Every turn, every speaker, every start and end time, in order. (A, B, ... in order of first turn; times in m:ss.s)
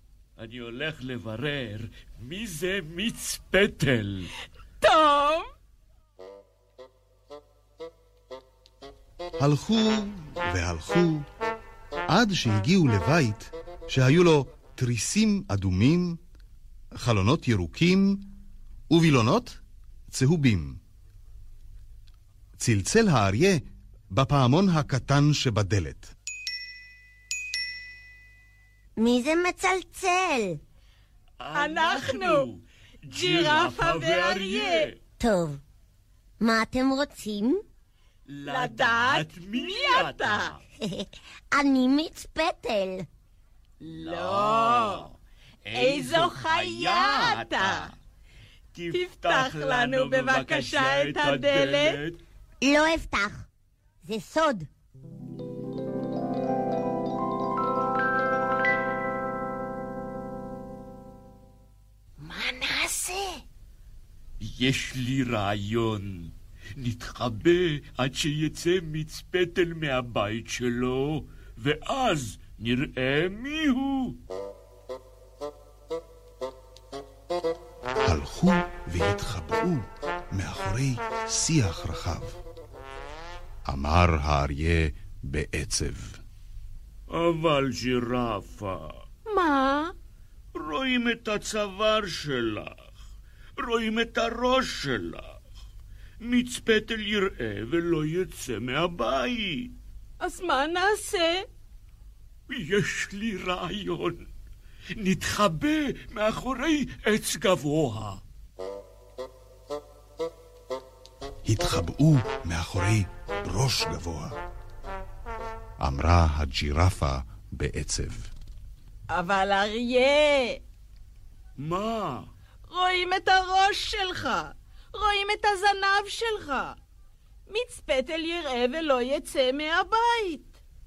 0:00.4-0:04.3 A
0:04.8-0:05.5 B
0:09.4-0:11.3 C
0:12.1-0:16.2 C
0:16.9-0:18.3 C
0:18.9-0:20.8 C
0:22.6-0:26.1 C
0:29.0-0:30.6 D
0:31.4-0:35.0 A
0:31.5-0:32.5 B
0:33.1-0:34.9 B
0:35.2-0:35.6 D
0:36.4-0:37.6 D
0:38.3-0:40.6 A
0:38.5-0:40.6 B
0:40.8-0:43.1 D
0:43.8-0:47.9 A
0:43.9-0:45.0 B
0:45.7-0:47.9 B
0:48.7-0:52.2 A
0:48.9-0:52.0 B
0:52.6-0:53.5 D
0:54.0-0:54.7 D
1:02.3-1:02.9 A
1:04.4-1:14.2 A
1:18.0-1:22.4 C
1:23.6-1:26.2 C
1:27.1-1:29.0 A
1:29.3-1:29.9 B
1:30.5-1:32.8 A
1:33.6-1:35.4 A
1:36.2-1:39.7 A
1:40.2-1:41.5 B
1:42.5-1:44.2 A
1:45.0-1:48.2 A
1:51.4-1:54.4 C
1:55.8-1:58.3 C
1:59.1-2:00.6 B
2:01.6-2:02.3 A
2:02.7-2:06.8 B
2:07.5-2:10.5 B